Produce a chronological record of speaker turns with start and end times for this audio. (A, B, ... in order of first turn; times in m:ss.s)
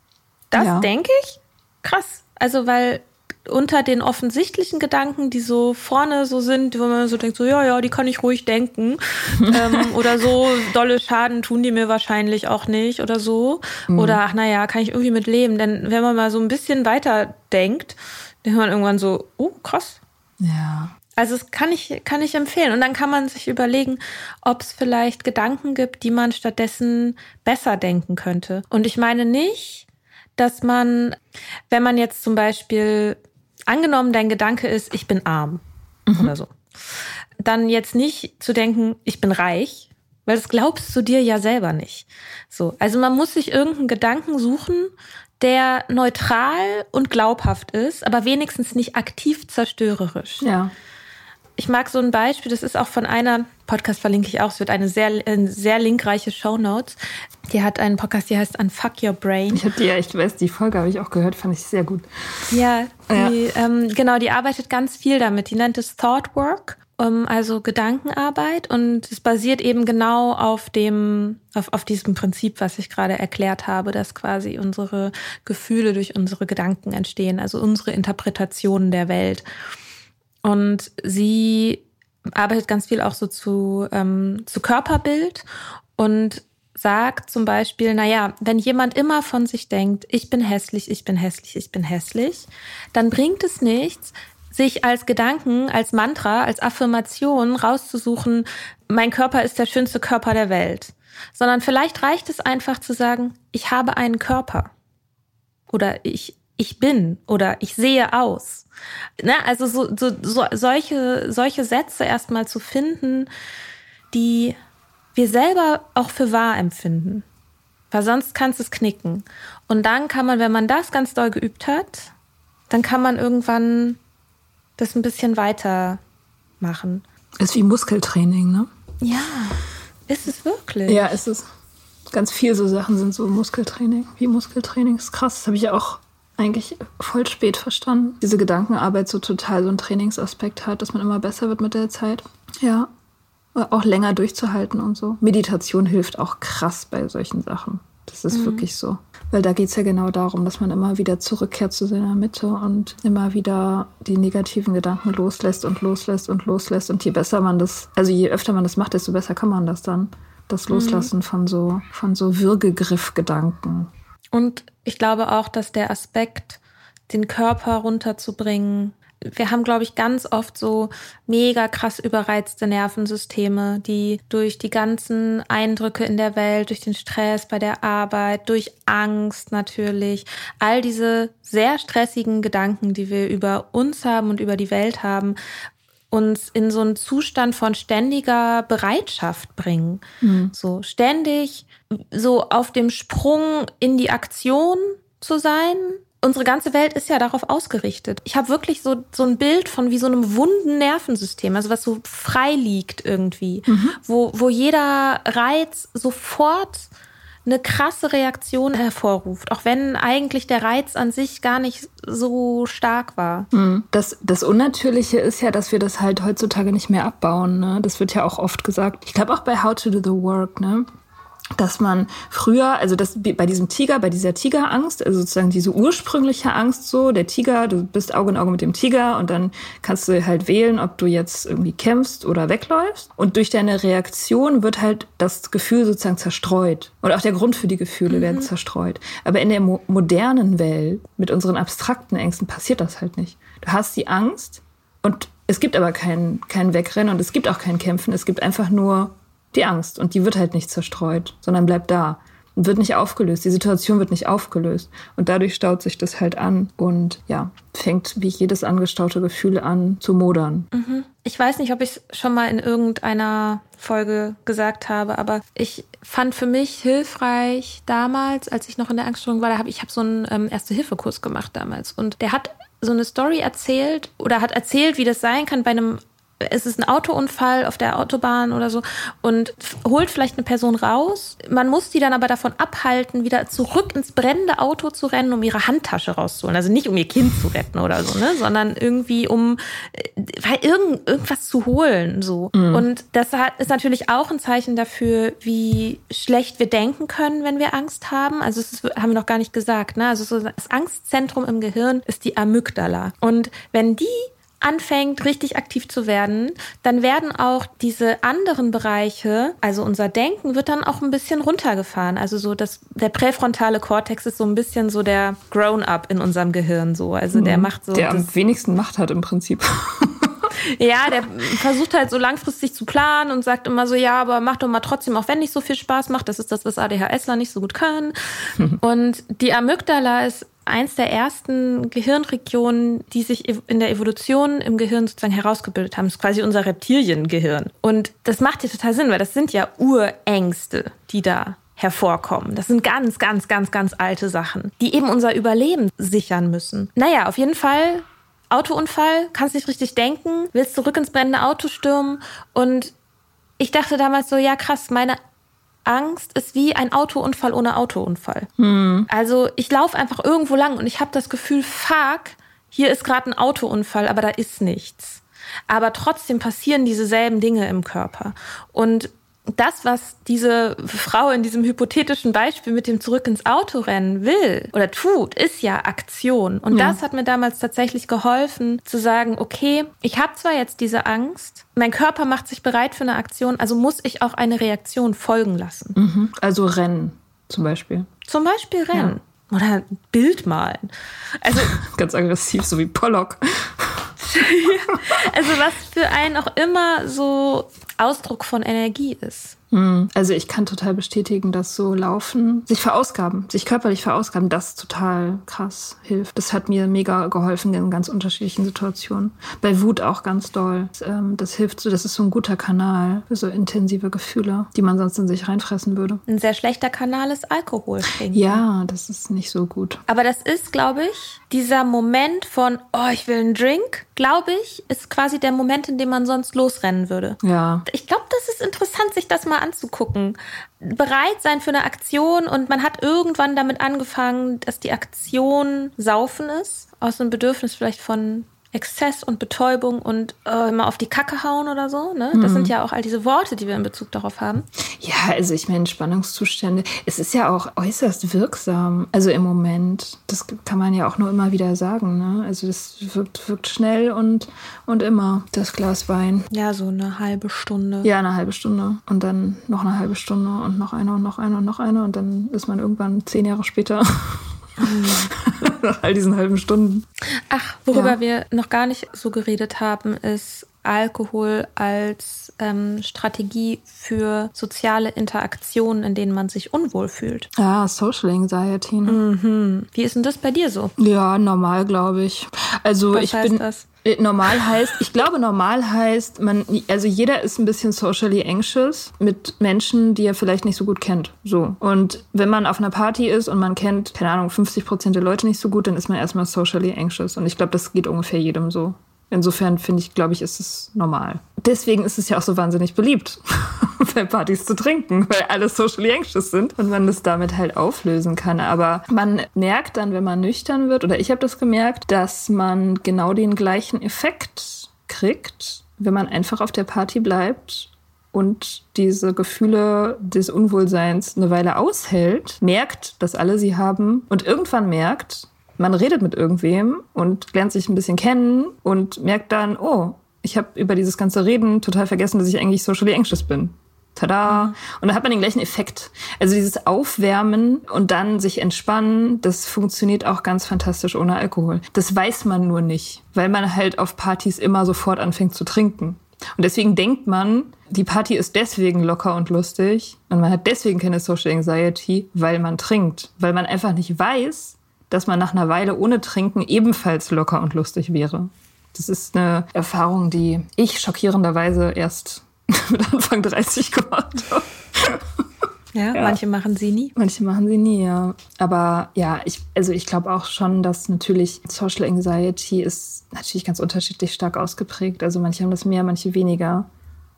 0:00.5-0:20.0 A
0:00.5-0:00.9 B
0:09.4-0:10.0 B
0:13.9-0:14.2 B
0:20.4-0:20.9 B
0:21.2-0:29.8 A
0:30.4-0:31.2 A
0:31.7-0:33.2 A
0:33.7-0:35.6 A
0:36.1-0:36.3 B
0:36.1-0:36.5 A
0:37.4-0:50.5 A
0:50.4-0:50.7 B
0:51.6-0:57.0 A
0:57.5-0:59.6 A
0:59.5-1:02.5 B
1:02.5-1:19.4 A
1:03.1-1:03.4 B
1:20.4-1:25.4 A
1:26.0-1:44.7 A
1:45.7-1:48.6 A
1:49.2-1:53.3 A
1:54.1-1:54.6 A
1:55.1-1:57.2 A
1:57.9-2:02.1 A
2:02.7-2:04.0 A
2:04.8-2:06.0 A
2:06.6-2:07.0 A
2:07.4-2:08.7 B
2:09.0-2:11.1 A
2:10.8-2:11.5 B
2:12.1-2:22.9 B
2:23.5-2:43.9 B
2:28.3-2:28.6 A
2:40.7-2:41.1 A
2:44.3-3:05.4 A
3:06.1-3:26.9 A
3:10.2-3:10.5 B
3:23.7-3:24.0 B
3:27.4-3:33.5 A
3:33.5-3:40.9 B
3:41.5-4:20.7 B
3:58.1-3:58.5 A
4:20.7-5:18.3 A
4:52.5-4:52.8 B
5:17.3-5:20.5 B
5:20.7-5:28.1 A
5:28.8-5:52.9 A
5:53.6-5:55.2 A
5:55.8-5:58.5 A
5:58.6-5:59.1 B
5:59.1-6:26.0 A
6:16.7-6:17.0 B
6:26.0-6:28.1 B
6:28.3-6:31.8 A
6:31.6-6:34.1 B
6:34.2-6:39.6 A
6:39.7-6:56.2 B
6:56.3-6:58.6 A
6:58.3-7:00.0 B
7:00.1-7:24.6 A
7:07.4-7:07.8 B
7:22.3-7:22.7 B
7:25.0-7:36.5 B
7:36.5-7:38.1 A
7:38.0-7:44.5 B
7:44.8-7:45.3 A
7:45.0-7:47.1 B
7:47.5-7:57.5 A
7:47.9-7:48.2 B
7:57.6-7:59.2 B
7:59.0-8:00.9 A
8:01.0-9:25.4 B
8:03.1-8:03.8 A
8:54.5-8:54.7 A
9:25.9-9:27.1 A
9:26.1-9:26.4 B
9:27.1-9:36.9 B